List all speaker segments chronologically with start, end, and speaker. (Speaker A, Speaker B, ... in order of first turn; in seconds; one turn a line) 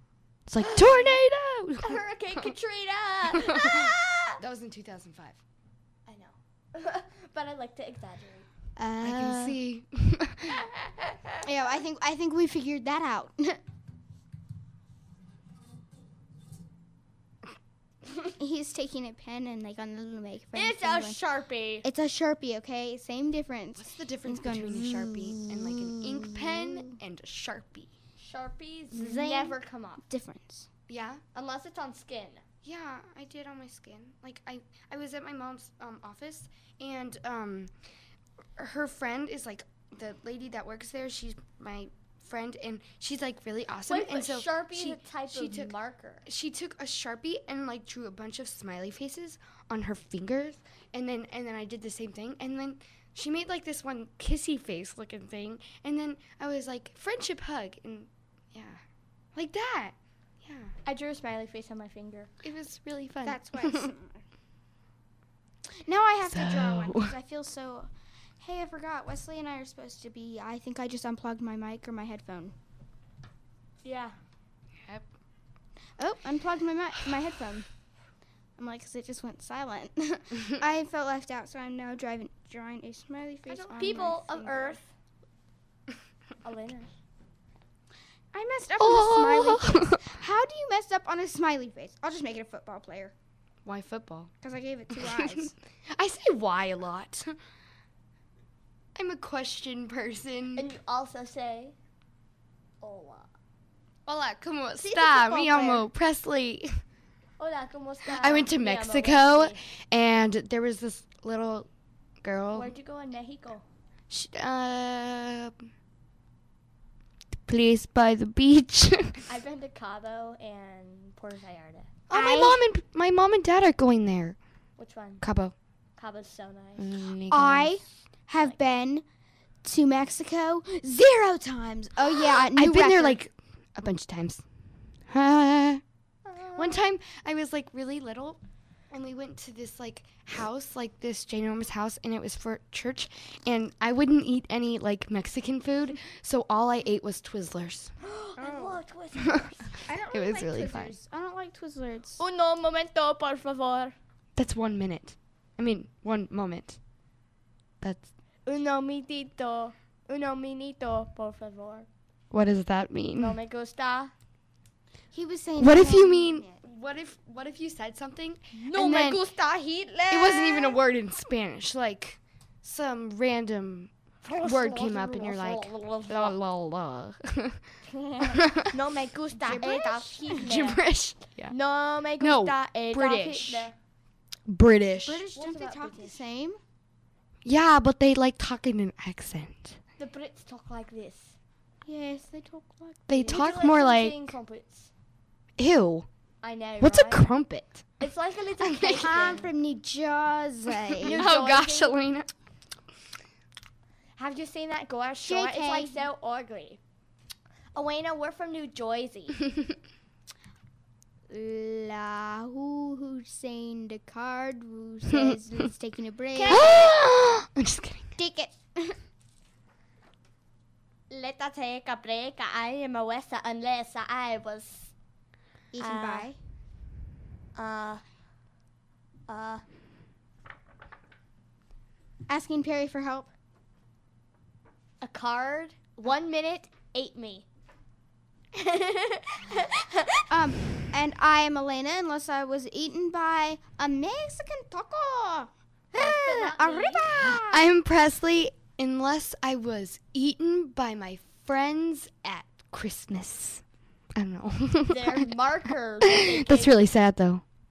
Speaker A: 0.5-2.5
Speaker B: 0.6-1.2
Speaker B: 1.8-4.4
Speaker A: 3.3-5.4
Speaker B: 6.1-8.5
Speaker C: 8.8-9.6
Speaker A: 9.0-10.6
Speaker C: 11.4-13.6
Speaker C: 18.4-21.2
Speaker B: 20.5-21.9
Speaker C: 21.8-26.9
Speaker A: 23.8-27.9
Speaker B: 28.2-30.0
Speaker C: 28.9-30.7
Speaker A: 30.9-31.2
Speaker B: 31.3-32.4
Speaker A: 32.6-37.7
Speaker A: 38.6-58.8
Speaker B: 43.9-46.2
Speaker A: 59.4-60.7
Speaker B: 60.9-62.3
Speaker A: 62.4-63.9
Speaker C: 63.2-64.2
Speaker C: 65.8-72.5
Speaker A: 66.3-67.2
Speaker B: 73.8-74.2
Speaker C: 76.0-77.7
Speaker C: 78.6-84.8
Speaker B: 83.5-84.9
Speaker B: 86.4-86.9
Speaker C: 88.3-93.1
Speaker A: 88.8-90.1
Speaker A: 93.7-94.3
Speaker C: 94.4-95.5
Speaker A: 95.0-97.3
Speaker A: 99.0-100.7
Speaker B: 100.6-101.8
Speaker B: 102.8-103.3
Speaker A: 104.1-106.8
Speaker B: 104.8-105.9
Speaker B: 107.4-109.6
Speaker A: 108.0-111.7
Speaker A: 112.2-112.8
Speaker B: 112.5-113.7
Speaker A: 114.1-115.6
Speaker A: 117.5-119.2
Speaker B: 119.3-121.9
Speaker A: 122.1-124.4
Speaker C: 122.1-122.7
Speaker B: 124.8-125.2
Speaker A: 125.2-125.5
Speaker B: 126.0-126.9
Speaker A: 126.8-127.7
Speaker C: 127.3-129.0
Speaker B: 128.3-128.6
Speaker C: 129.6-133.2
Speaker A: 132.5-134.4
Speaker A: 135.1-135.8
Speaker B: 136.3-136.8
Speaker A: 136.6-138.4
Speaker A: 138.9-147.9
Speaker B: 148.0-149.8
Speaker C: 148.4-148.8
Speaker A: 149.2-149.5
Speaker C: 149.8-152.2
Speaker A: 150.1-150.9
Speaker B: 152.2-153.9
Speaker A: 154.4-156.8
Speaker A: 157.8-158.1
Speaker B: 158.5-161.9
Speaker A: 162.3-163.4
Speaker B: 163.2-164.1
Speaker C: 165.1-166.6
Speaker A: 165.6-169.2
Speaker B: 168.6-170.8
Speaker A: 170.1-177.6
Speaker B: 174.2-176.4
Speaker B: 178.0-180.8
Speaker A: 178.2-178.7
Speaker C: 179.4-180.6
Speaker A: 180.3-181.6
Speaker B: 181.5-183.8
Speaker A: 182.2-183.7
Speaker A: 184.5-185.3
Speaker C: 185.0-186.6
Speaker B: 185.3-186.2
Speaker A: 187.4-189.8
Speaker B: 190.0-191.4
Speaker C: 191.8-193.2
Speaker A: 193.1-194.3
Speaker B: 193.1-194.9
Speaker A: 195.6-196.1
Speaker B: 196.4-197.3
Speaker A: 196.8-197.9
Speaker B: 198.0-199.5
Speaker A: 198.6-199.3
Speaker C: 198.9-201.3
Speaker B: 201.0-202.0
Speaker A: 201.1-202.3
Speaker B: 204.2-206.8
Speaker C: 205.2-206.1
Speaker B: 207.7-209.4
Speaker C: 211.3-216.7
Speaker B: 216.3-216.9
Speaker A: 216.5-218.1
Speaker C: 218.2-219.0
Speaker B: 221.1-224.9
Speaker C: 225.7-226.4
Speaker B: 225.8-226.3
Speaker B: 227.6-228.0
Speaker B: 229.3-229.6
Speaker C: 232.3-233.3
Speaker B: 235.0-237.4
Speaker B: 238.6-240.2
Speaker C: 240.3-247.7
Speaker B: 245.9-247.4
Speaker A: 247.3-253.6
Speaker A: 254.2-255.3
Speaker B: 254.9-256.8
Speaker A: 256.0-257.4